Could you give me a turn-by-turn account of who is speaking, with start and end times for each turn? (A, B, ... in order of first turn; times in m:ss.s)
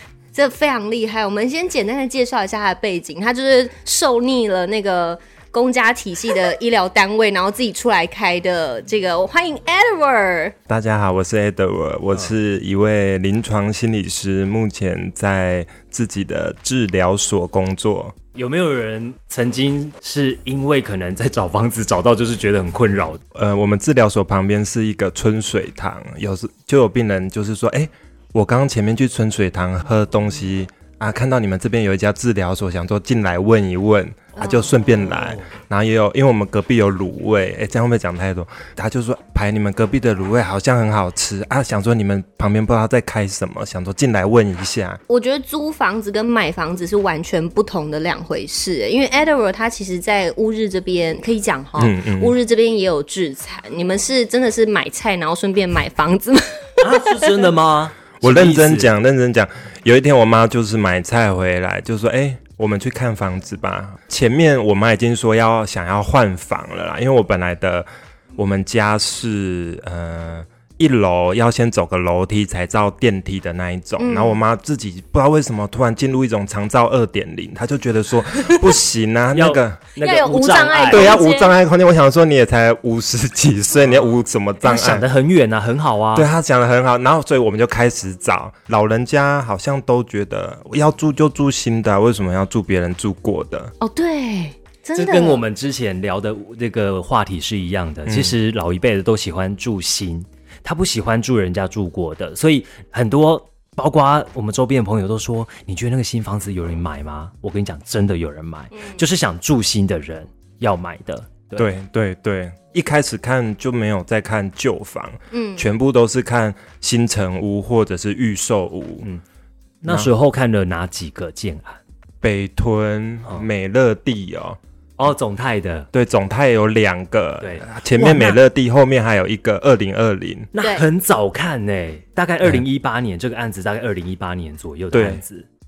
0:00.3-0:10.5 A
0:10.7-0:18.1 B
0:18.3-0:23.2 C
0:23.3-0:45.0 B
0:34.4-0:35.2 A
0:35.1-0:35.5 C
0:45.1-0:57.5 A
0:51.8-0:52.4 B
0:56.8-0:58.9 C
0:58.2-1:19.9 B
1:14.0-1:14.4 A
1:19.3-1:21.2 C
1:20.0-1:21.6 A
1:20.9-1:25.1 B
1:23.8-1:24.1 A
1:24.6-1:26.3 C
1:26.1-1:33.7 B
1:33.8-1:35.4 A
1:34.9-1:51.7 C
1:38.0-1:38.4 B
1:51.6-1:59.0 B
1:55.3-1:55.7 A
1:59.8-2:01.8 C
2:02.2-2:04.6 B
2:05.0-2:05.9 C
2:05.9-2:10.5 B
2:07.4-2:07.7 C
2:07.9-2:08.4 A
2:10.5-2:15.5 C
2:10.6-2:10.8 A
2:14.9-2:15.2 B